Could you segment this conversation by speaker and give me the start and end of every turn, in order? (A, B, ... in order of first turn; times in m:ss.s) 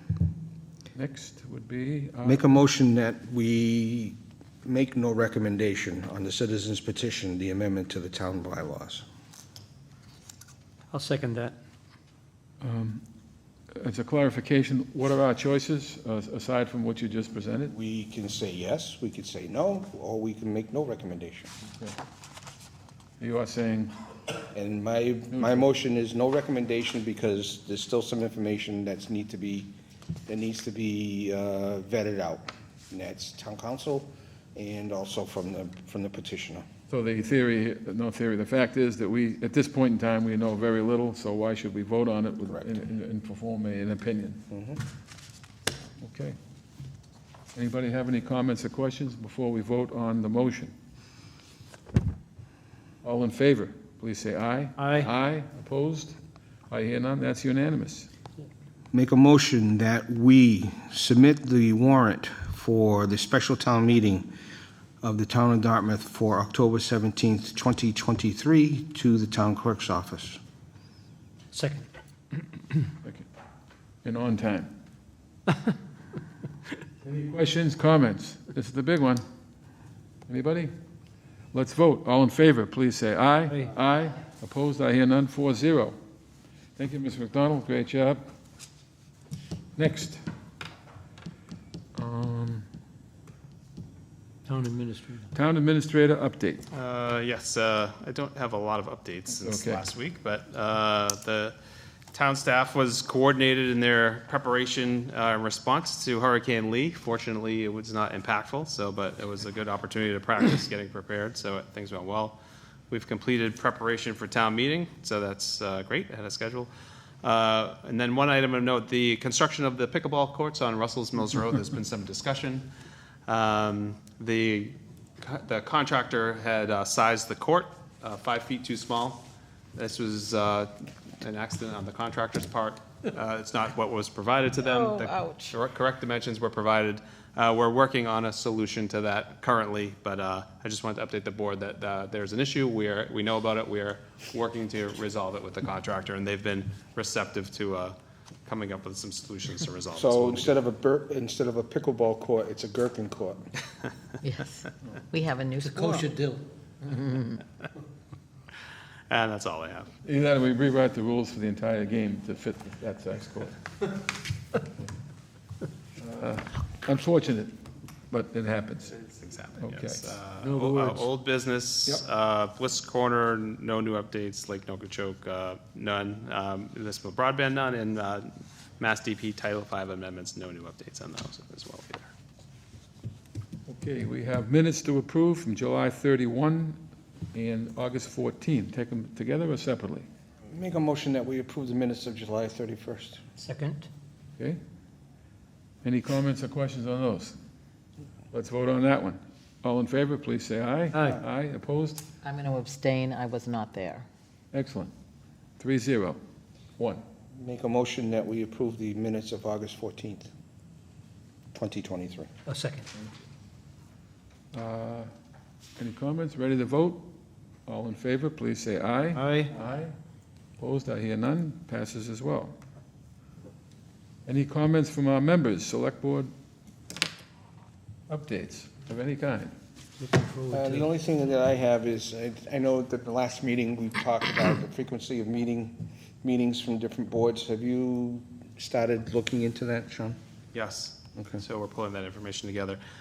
0:01.0-0:02.6 A
0:02.2-0:09.0 B
0:10.9-0:11.6 C
0:12.6-0:13.0 A
0:13.7-0:17.7 A
0:17.7-0:21.5 B
0:23.2-0:23.9 A
0:24.5-0:29.7 B
0:25.3-0:25.6 A
0:30.3-0:36.6 B
0:36.9-0:44.4 A
0:44.5-0:44.8 B
0:46.0-0:46.4 A
0:47.5-0:50.7 A
0:53.0-0:56.2 A
0:56.7-0:58.1 A
0:58.9-1:04.3 B
1:05.0-1:10.4 B
1:11.5-1:11.9 C
1:14.0-1:14.7 A
1:17.0-1:19.2 A
1:20.3-1:20.7 A
1:21.5-1:26.0 A
1:26.8-1:28.2 A
1:29.8-1:30.2 A
1:32.0-1:32.7 A
1:34.5-1:35.2 C
1:35.3-1:36.6 A
1:36.7-1:41.6 D
1:39.4-1:39.8 A
1:42.1-1:52.4 D
1:52.9-1:56.7 D
1:57.2-2:02.7 D
2:03.3-2:09.2 D
2:09.8-2:28.0 D
2:14.6-2:15.5 E
2:28.5-2:30.6 D
2:29.9-2:33.4 B
2:34.2-2:36.1 E
2:35.6-2:36.5 C
2:36.8-2:37.4 E
2:39.1-2:39.9 D
2:40.0-2:43.6 A
2:46.0-2:47.6 A
2:48.1-2:48.9 A
2:48.9-3:02.1 D
2:49.6-2:50.2 A
2:50.4-2:51.1 C
3:03.7-3:06.8 A
3:07.3-3:10.1 A
3:10.5-3:13.2 B
3:13.4-3:13.9 C
3:15.8-3:17.4 A
3:18.3-3:22.0 A
3:20.9-3:21.2 C
3:22.2-3:24.1 E
3:24.5-3:24.9 A
3:25.6-3:26.2 A
3:26.8-3:27.0 A
3:27.3-3:30.3 B
3:31.5-3:32.3 B
3:32.5-3:32.9 C
3:34.5-3:35.1 A
3:35.8-3:37.1 A
3:37.7-3:40.0 A
3:39.1-3:39.5 C
3:40.6-3:42.6 A
3:44.3-3:46.3 A
3:48.1-3:49.5 A
3:50.0-3:50.9 C
3:50.5-4:00.2 B
4:00.5-4:02.8 D
4:01.2-4:01.4 B